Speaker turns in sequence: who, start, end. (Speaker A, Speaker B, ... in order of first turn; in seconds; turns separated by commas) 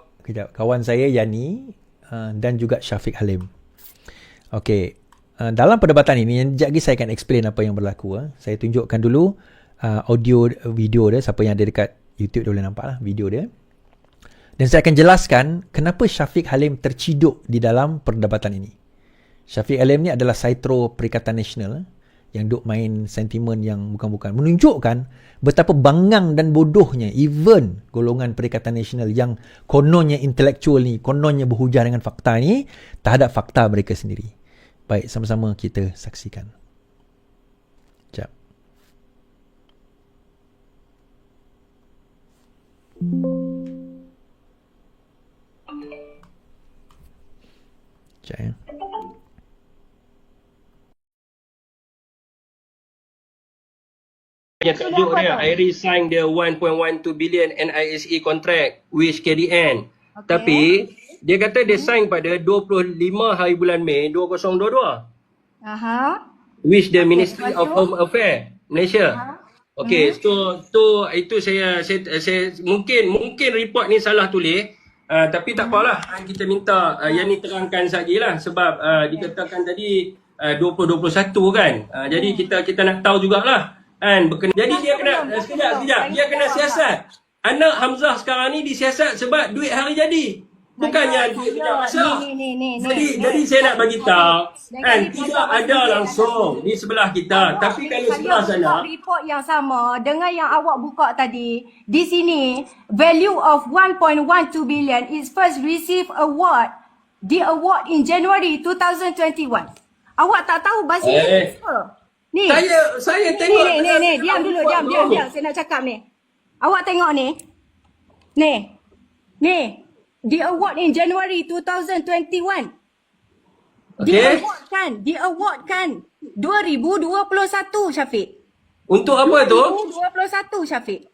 Speaker A: 0.2-3.5, Speaker A: 4.5-13.5, Speaker A: 14.6-18.7, Speaker A: 19.5-34.3, Speaker A: 34.9-36.5, Speaker A: 48.2-48.5, Speaker B: 54.6-65.0, Speaker C: 54.8-55.5, Speaker C: 60.2-60.7, Speaker C: 61.7-61.9, Speaker C: 65.6-66.2, Speaker B: 66.7-69.2, Speaker C: 66.9-67.9, Speaker C: 69.1-70.2, Speaker B: 69.8-92.2, Speaker C: 75.6-75.9, Speaker C: 82.1-82.5, Speaker C: 84.7-86.8, Speaker C: 90.8-96.6, Speaker B: 92.8-98.9, Speaker C: 97.3-106.7, Speaker C: 107.2-112.6, Speaker B: 111.0-111.5, Speaker B: 112.5-115.2, Speaker C: 113.3-116.0, Speaker C: 116.6-117.4, Speaker C: 118.4-118.8, Speaker C: 119.4-122.7, Speaker B: 124.0-124.4, Speaker C: 124.0-128.3, Speaker B: 128.9-129.7, Speaker C: 129.2-131.1